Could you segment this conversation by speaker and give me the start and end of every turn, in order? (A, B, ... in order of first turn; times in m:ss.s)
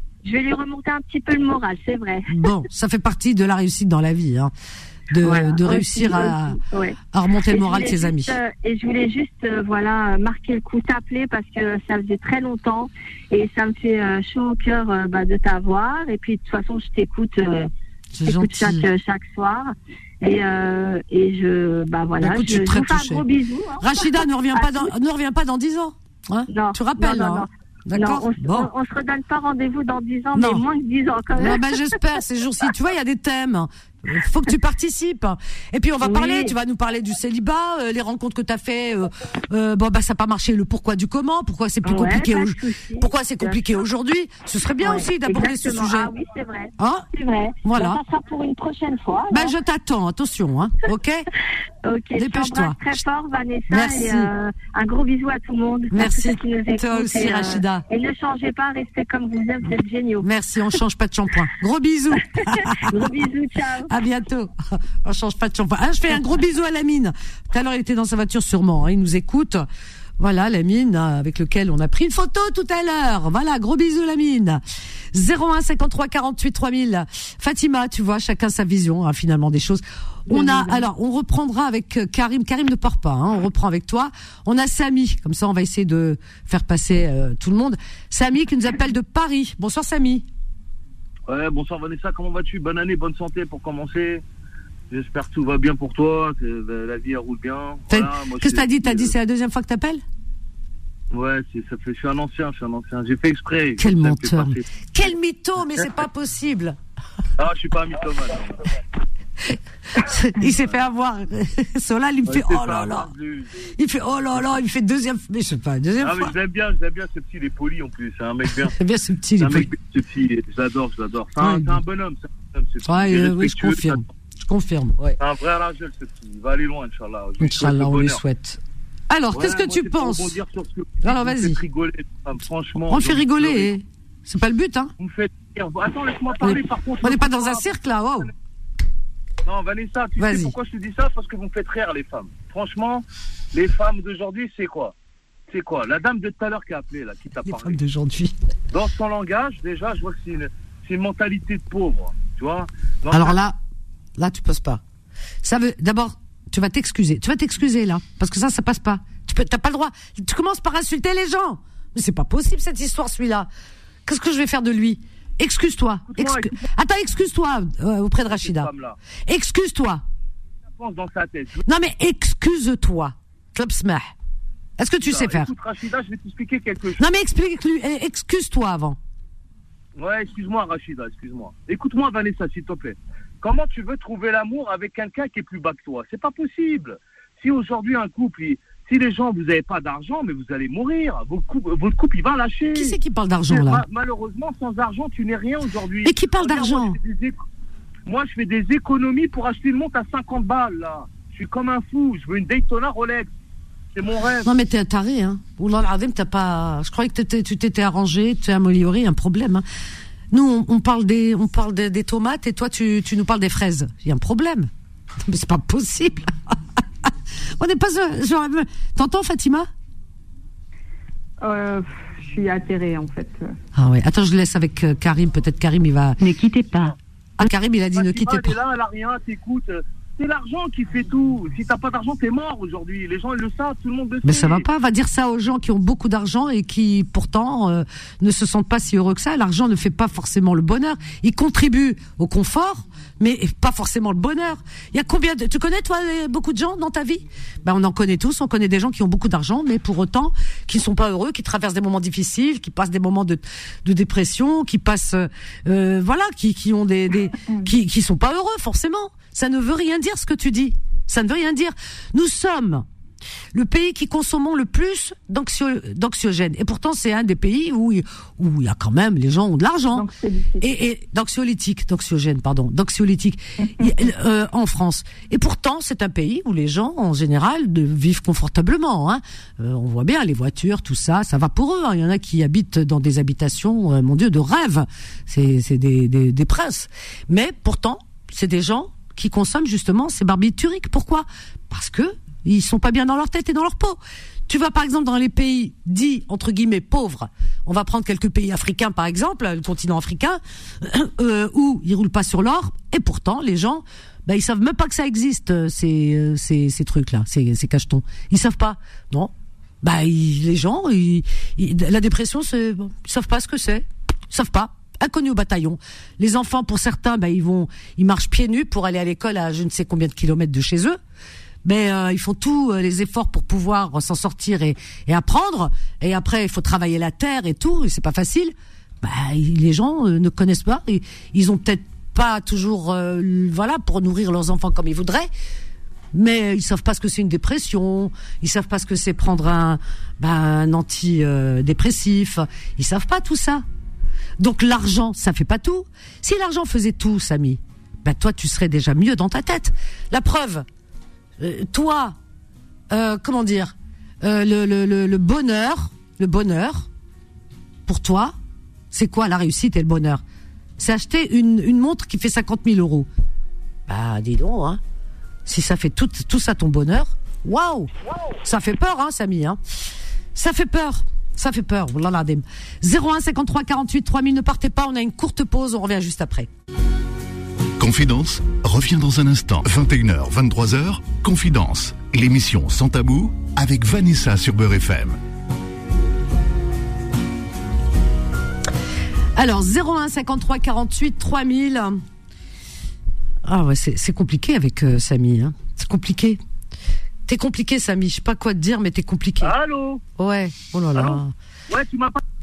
0:00.2-0:02.3 A
0:02.3-0:04.5 B
0:05.1-0:06.6 B
0:05.2-0:17.7 A
0:07.1-0:08.4 B
0:18.1-0:18.9 B
0:18.2-0:24.9 A
0:22.2-0:23.2 B
0:23.8-0:28.7 B
0:26.5-0:31.7 A
0:30.3-0:30.6 B
0:31.4-0:46.1 B
0:36.0-0:36.5 A
0:41.8-0:43.6 A
0:44.8-0:49.6 A
0:46.8-0:47.1 B
0:47.6-0:48.0 B
0:49.3-0:51.2 B
0:51.8-1:00.3 A
0:52.2-0:53.0 B
0:53.7-0:54.3 B
0:55.9-0:57.8 B
1:00.2-1:03.1 B
1:02.4-1:03.9 A
1:03.9-1:09.6 B
1:10.2-1:14.6 B
1:15.1-1:30.2 B
1:31.3-1:34.2 C
1:34.9-1:39.1 C
1:37.9-1:40.0 B
1:41.1-1:45.1 C
1:43.8-1:46.8 B
1:47.4-1:48.7 C
1:49.9-1:53.1 B
1:50.4-1:50.7 C
1:52.3-1:53.7 C
1:53.8-1:56.4 B
1:56.0-1:58.8 C
1:58.8-1:59.7 B
1:59.4-2:04.0 C
2:01.4-2:01.8 B
2:02.8-2:05.2 B
2:05.2-2:08.2 C
2:07.4-2:10.4 B
2:09.3-2:13.7 C
2:11.0-2:11.6 B
2:12.8-2:14.9 B
2:15.0-2:18.3 C
2:16.3-2:18.3 B
2:19.5-2:24.9 C
2:20.2-2:20.5 B
2:25.5-2:27.8 C
2:27.4-2:28.4 B
2:28.7-2:33.4 C
2:33.1-2:33.6 B
2:34.2-2:34.8 B
2:35.4-2:43.5 B
2:44.1-2:48.7 B
2:46.1-2:46.7 C
2:48.3-2:49.0 C
2:49.3-2:50.0 B
2:50.7-2:51.6 C
2:51.7-2:54.1 B
2:54.8-2:55.5 B
2:55.1-2:57.1 C
2:57.0-2:59.0 B
3:00.0-3:17.4 C
3:12.7-3:13.8 B
3:16.0-3:17.0 B
3:18.1-3:23.3 C
3:23.9-3:24.5 C
3:24.4-3:29.6 B
3:30.3-3:34.7 B
3:35.2-3:36.6 B
3:37.6-3:39.7 B
3:41.4-3:43.6 D
3:43.8-3:48.6 B
3:48.0-3:54.7 C
3:54.2-4:22.8 B
4:23.5-4:30.1 B
4:29.9-4:30.7 D
4:30.6-5:21.0 B
5:21.6-5:35.3 B
5:36.1-5:43.6 B
5:44.4-5:50.7 B
5:51.4-5:52.2 B
5:52.9-5:56.9 B
5:57.9-5:58.4 B
5:58.9-6:00.2 B
6:00.8-6:03.1 B
6:03.9-6:04.8 B
6:05.5-6:07.9 B
6:08.4-6:09.6 B
6:10.4-6:16.5 B
6:17.8-6:25.2 E
6:29.4-6:32.0 B
6:33.4-6:36.4 B
6:37.3-6:39.6 B
6:39.4-6:40.0 C
6:40.2-6:41.3 B
6:40.9-6:42.2 C